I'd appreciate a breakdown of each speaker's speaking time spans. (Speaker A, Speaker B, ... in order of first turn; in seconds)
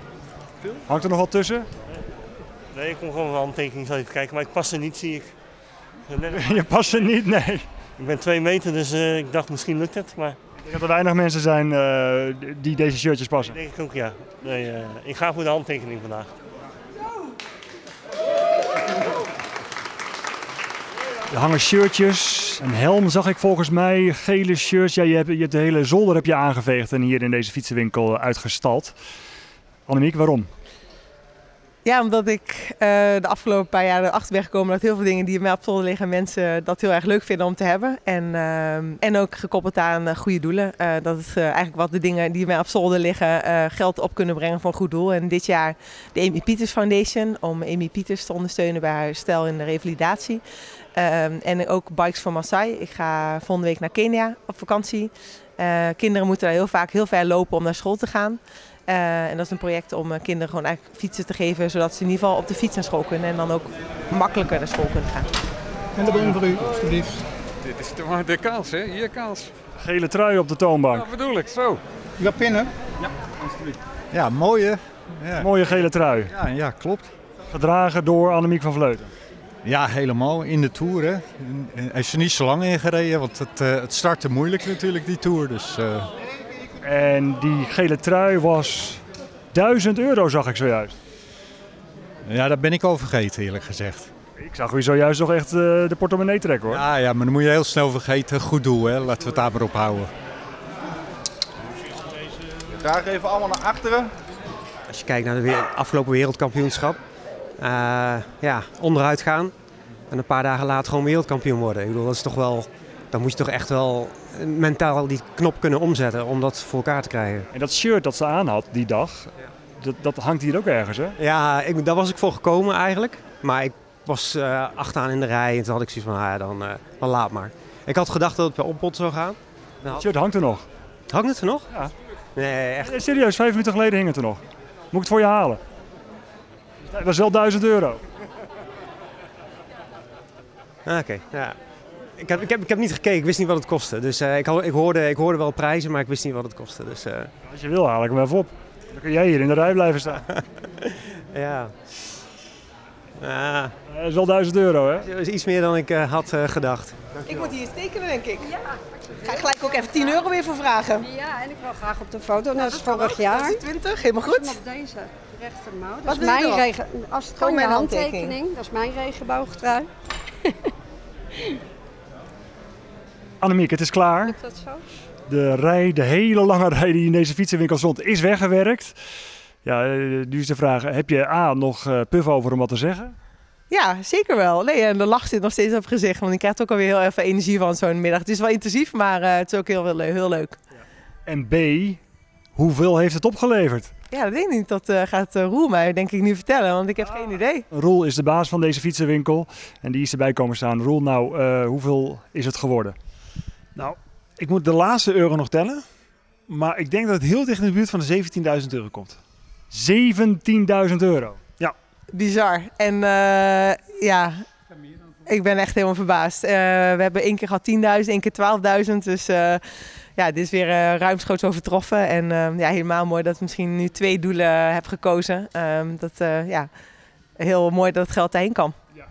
Speaker A: 0.9-1.7, 6.3-7.7, 10.6-13.6, 21.3-28.9, 29.9-30.5, 69.8-71.1, 75.4-76.3, 77.5-79.1, 86.8-89.0, 89.5-91.0, 94.4-96.8, 117.5-121.2, 129.9-130.7, 132.8-135.6, 136.8-138.0, 147.5-150.3, 153.9-155.1, 173.4-174.4, 175.3-179.0, 179.6-183.1, 191.3-192.0, 192.6-193.9, 197.7-202.9, 209.7-211.4
Speaker B: 2.7-5.3, 6.1-6.6, 8.0-10.4, 13.4-16.3
Speaker C: 31.9-50.4, 51.0-65.3, 157.2-158.6, 159.2-161.1, 162.6-164.6, 166.1-166.7, 167.4-168.4, 183.7-190.6, 194.1-197.7, 212.1-214.4, 215.3-219.6, 220.2-226.7, 227.4-228.8
Speaker D: 66.0-67.1, 72.2-72.7, 102.8-104.1
Speaker E: 67.6-69.5, 71.0-71.8
Speaker F: 74.1-75.5, 76.3-77.1, 79.6-86.1, 92.3-94.1, 96.7-100.1
Speaker G: 104.9-107.0, 107.6-109.5, 110.1-117.5, 121.2-130.0, 131.1-131.7, 132.4-133.0, 140.9-141.6, 142.2-147.3, 151.3-151.7, 153.2-153.7, 155.0-157.0
Speaker H: 161.0-163.6, 164.3-169.9, 174.2-174.8
Speaker I: 203.8-205.9, 206.5-209.2